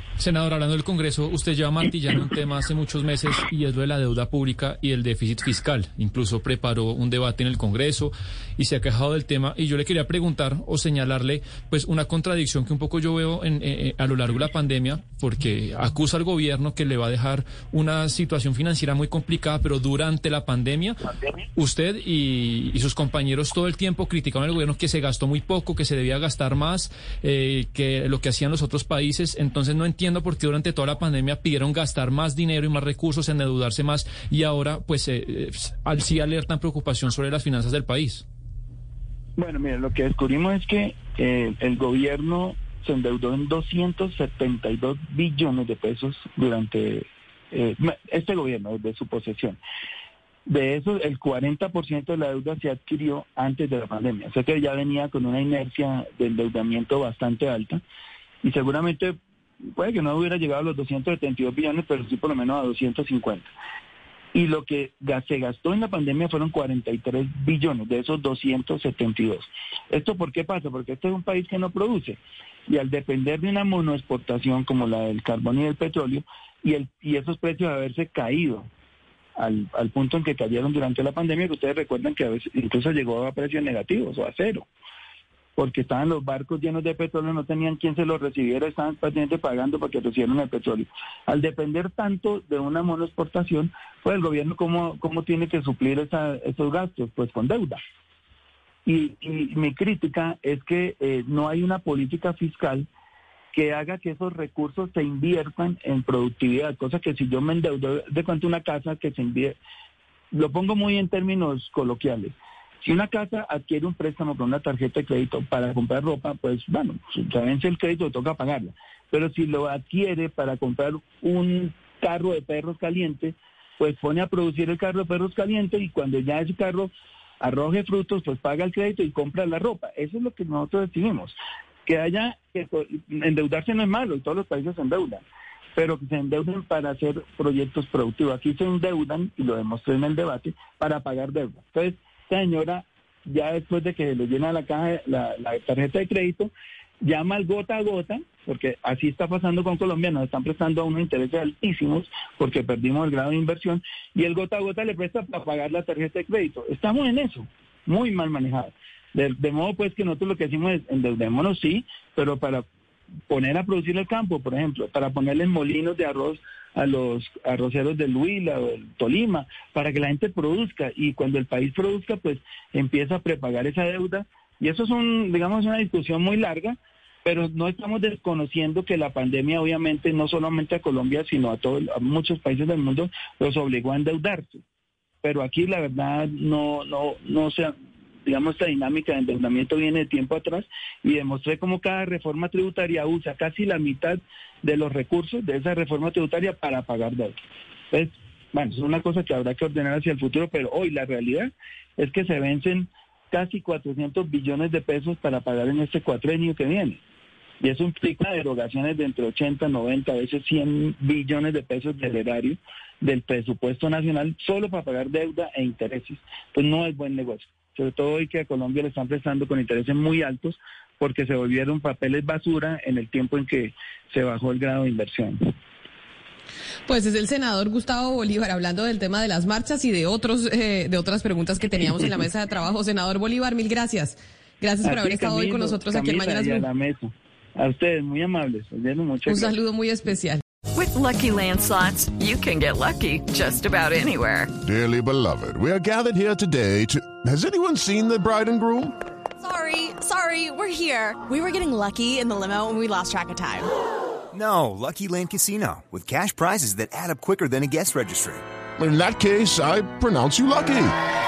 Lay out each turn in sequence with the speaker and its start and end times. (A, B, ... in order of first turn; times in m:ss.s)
0:00.2-0:21.0 A
0:21.6-0:38.2 A
0:39.4-0:49.6 B
0:50.5-0:57.8 B
0:58.4-0:59.1 B
0:59.7-1:03.5 B
1:04.3-1:18.7 B
1:19.4-1:24.7 B
1:25.6-1:37.8 B
1:38.8-1:42.8 B
1:43.5-1:49.6 B
1:50.3-2:15.2 B
2:15.8-2:26.5 B
2:27.0-2:42.6 B
2:43.3-3:04.6 B
3:05.2-3:07.7 B
3:08.2-3:17.4 B
3:17.9-3:27.0 B
3:27.6-3:45.4 B
3:46.9-3:56.7 C
3:54.8-3:59.5 B
3:59.3-4:00.4 C
4:00.7-4:04.5 D
4:04.6-4:08.9 E
4:09.4-4:13.7 F
4:14.3-4:18.4 G
4:18.8-4:20.9 E